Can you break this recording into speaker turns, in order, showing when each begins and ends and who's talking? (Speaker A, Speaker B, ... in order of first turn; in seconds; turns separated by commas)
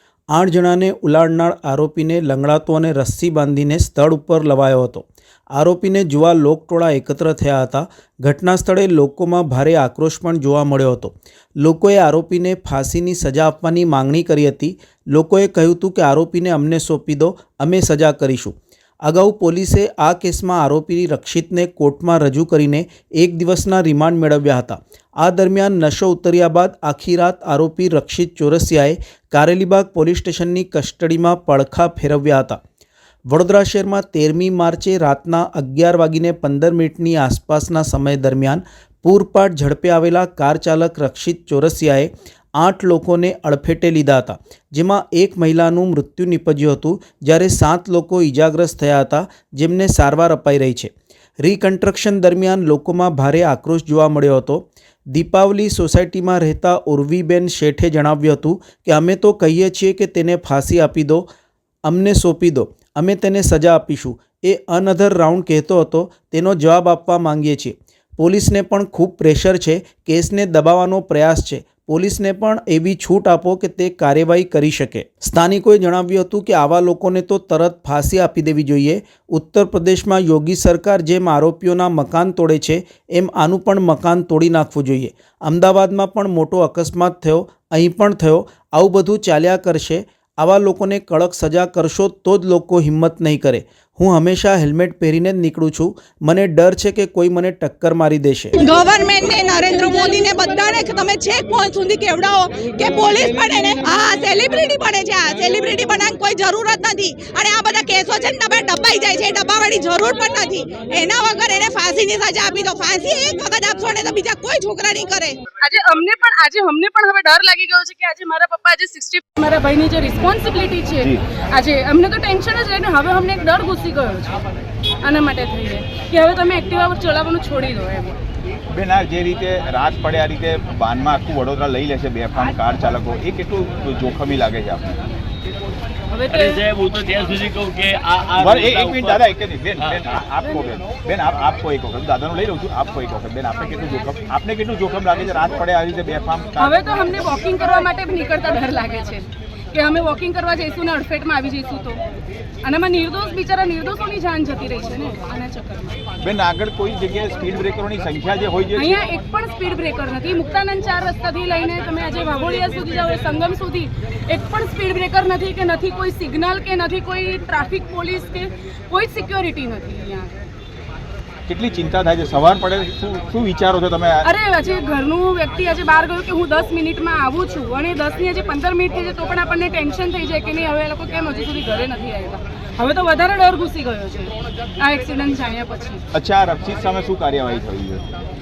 Speaker A: 0.3-32.6, Speaker A: 33.3-61.2, Speaker A: 61.9-98.5, Speaker B: 98.6-115.4, Speaker C: 115.5-124.4, Speaker C: 125.0-128.2, Speaker D: 128.7-135.0, Speaker C: 136.1-136.6, Speaker E: 136.3-139.2, Speaker D: 138.4-147.0, Speaker E: 139.8-140.2, Speaker C: 146.6-152.0, Speaker C: 152.6-156.0, Speaker D: 156.2-159.0, Speaker C: 158.8-170.3, Speaker D: 171.5-174.3, Speaker C: 174.2-186.0, Speaker D: 186.1-188.0